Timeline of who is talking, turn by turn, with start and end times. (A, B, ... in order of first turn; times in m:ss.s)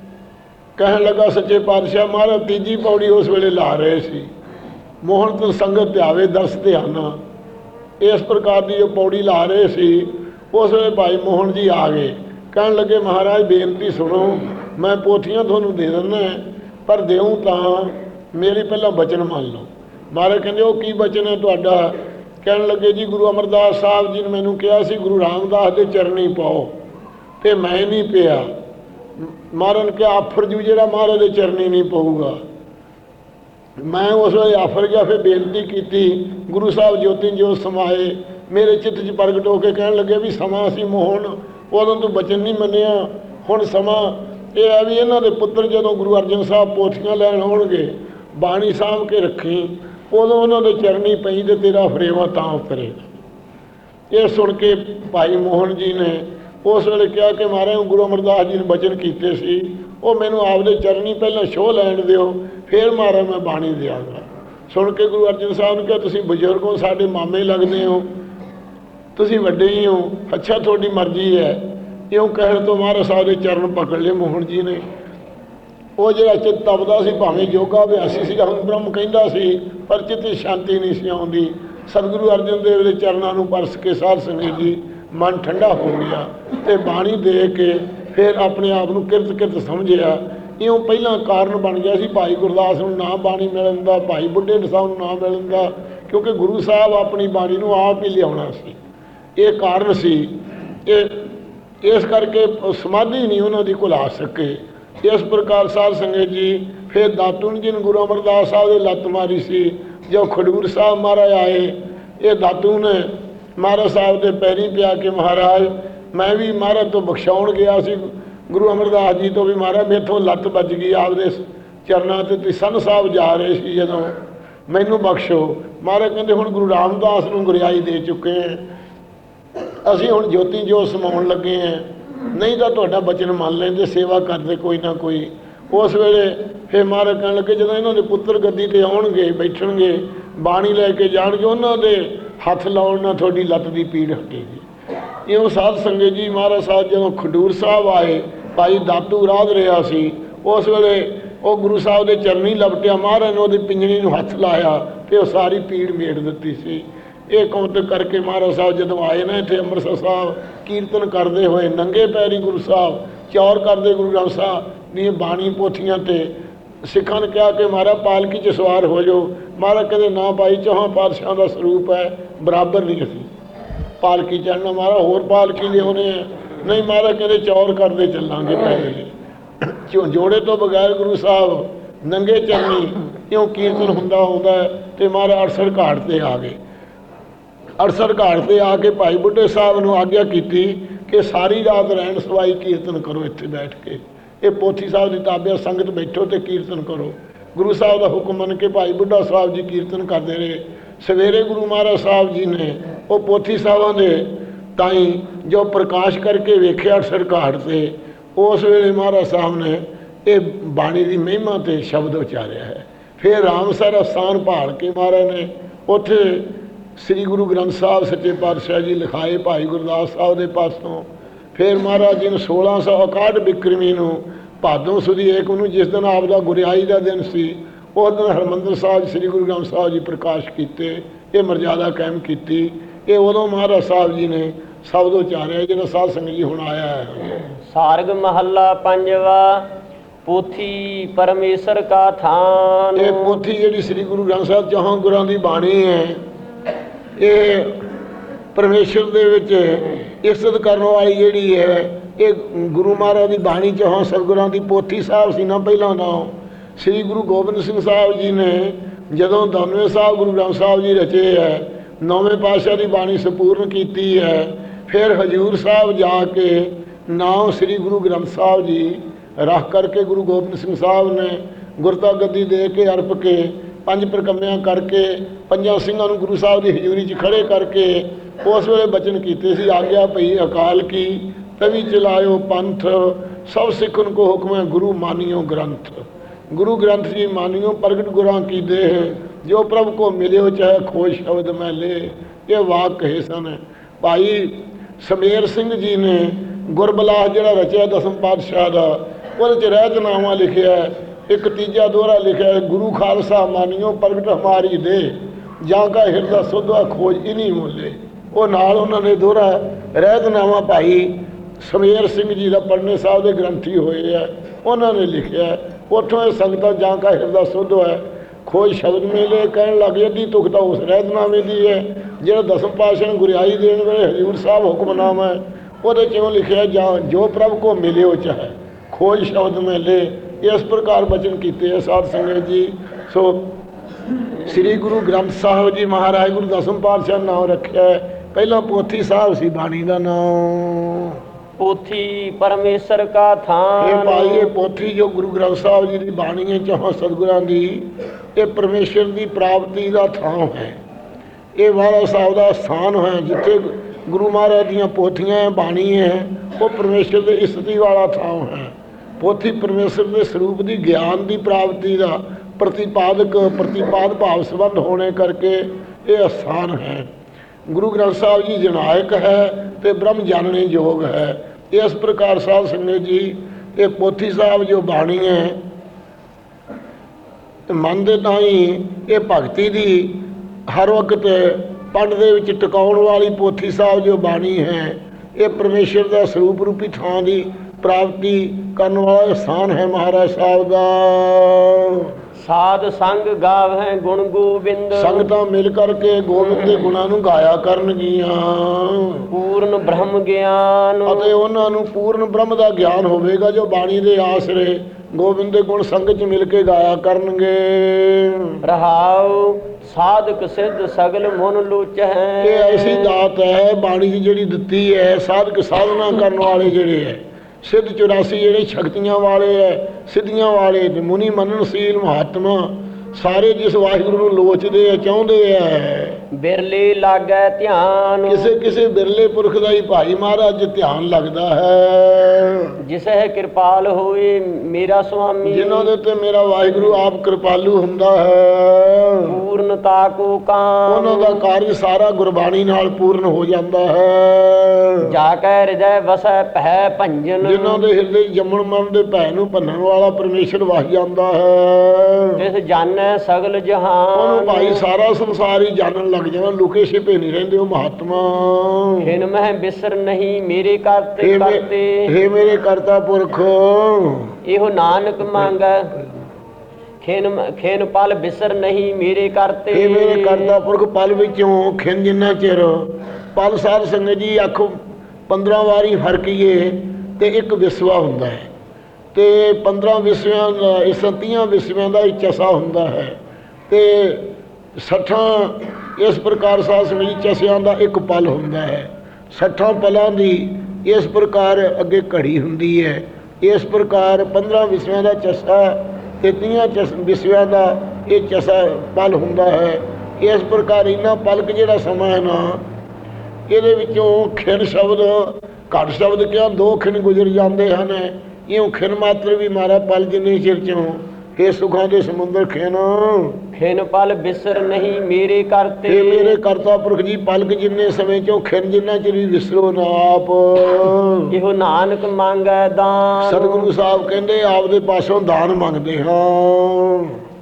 0:00.8-0:04.3 A
0:05.0-0:07.2 A
0:08.0-0:26.7 A
0:27.4-0:28.5 A
0:29.2-0:32.4 A
0:33.8-0:53.1 A
0:54.1-1:08.1 A
1:09.2-1:14.8 A
1:16.0-1:38.8 A
1:39.4-1:40.3 A
1:40.8-1:41.2 A
1:41.8-2:04.1 A
2:04.7-2:08.6 A
2:09.8-2:24.6 A
2:25.3-2:46.3 A
2:46.8-2:53.3 A
2:54.0-2:59.1 A
2:59.6-3:06.6 A
3:07.8-3:57.3 A
3:57.7-3:59.7 B
4:00.2-4:03.4 B
4:03.0-4:06.2 A
4:07.2-4:07.7 A
4:08.5-5:33.5 A
5:34.4-5:41.2 A
5:41.6-5:44.5 B
5:43.8-5:50.8 A
5:51.6-6:07.1 A
6:07.7-6:15.6 A
6:17.7-6:32.1 A
6:32.4-6:35.3 B
6:34.9-6:39.3 A
6:39.3-6:41.3 B
6:41.0-6:48.5 A
6:48.6-6:53.2 B
6:52.4-7:06.2 A
7:06.3-7:08.5 B
7:08.3-7:12.8 A
7:12.8-7:15.9 B
7:15.4-7:19.3 A
7:19.3-7:21.4 B
7:20.9-7:25.1 A
7:25.0-7:27.8 B
7:27.4-7:32.4 A
7:32.4-7:34.8 B
7:34.1-7:39.1 A
7:39.0-7:42.1 B
7:41.2-7:44.3 A
7:44.4-7:45.9 B
7:47.0-7:50.5 B
7:49.7-7:54.8 A
7:55.3-7:58.5 A
7:59.1-8:03.2 A
8:03.7-8:22.6 A
8:23.5-8:33.4 A
8:33.5-8:36.4 B
8:35.9-8:41.3 A
8:41.3-8:43.7 B
8:43.2-8:47.2 A